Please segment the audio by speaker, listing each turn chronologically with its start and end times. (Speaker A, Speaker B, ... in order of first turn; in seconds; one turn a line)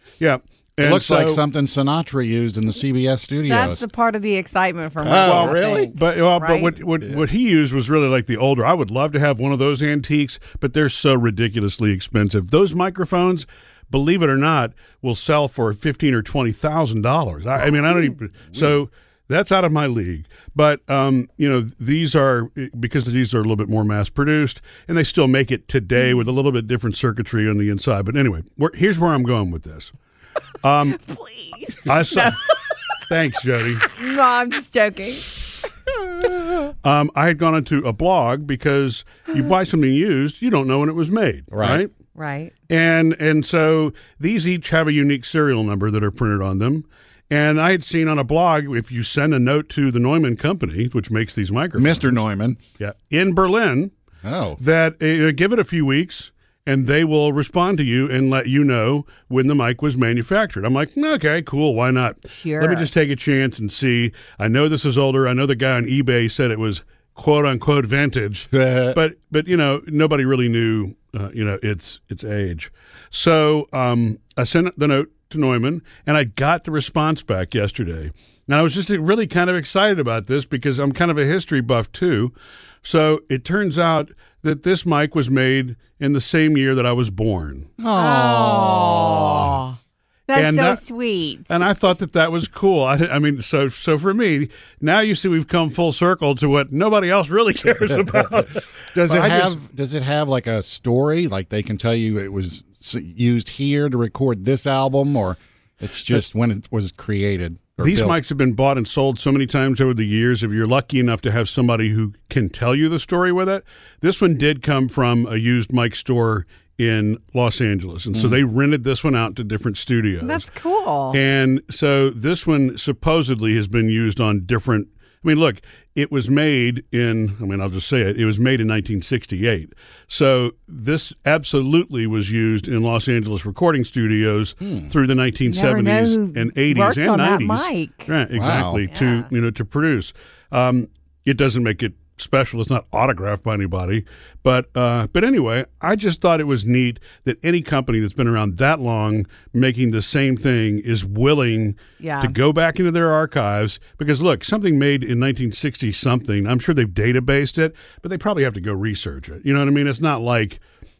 Speaker A: 0.2-1.4
Speaker B: 0.8-3.8
Speaker C: 3.5-6.7
Speaker B: 5.0-5.9
Speaker A: 5.2-29.9
Speaker A: 30.6-31.0
Speaker C: 31.0-32.4
Speaker A: 31.8-32.4
Speaker A: 33.1-33.9
Speaker C: 34.0-35.5
Speaker A: 36.8-41.9
Speaker B: 41.5-41.8
Speaker C: 42.1-42.5
Speaker A: 42.7-52.2
Speaker B: 51.8-52.6
Speaker A: 52.8-53.9
Speaker B: 54.2-54.6
Speaker A: 54.6-87.7
Speaker C: 62.4-62.9
Speaker B: 68.5-69.0
Speaker B: 87.8-89.6
Speaker C: 87.9-89.8
Speaker C: 90.3-91.6
Speaker A: 90.3-90.8
Speaker A: 91.5-99.6
Speaker B: 98.9-108.2
Speaker A: 107.8-120.4
Speaker B: 118.1-118.4
Speaker C: 120.2-121.2
Speaker A: 121.1-160.6
Speaker B: 134.6-134.9
Speaker C: 135.4-138.1
Speaker B: 138.3-138.8
Speaker C: 138.8-139.3
Speaker C: 152.0-152.3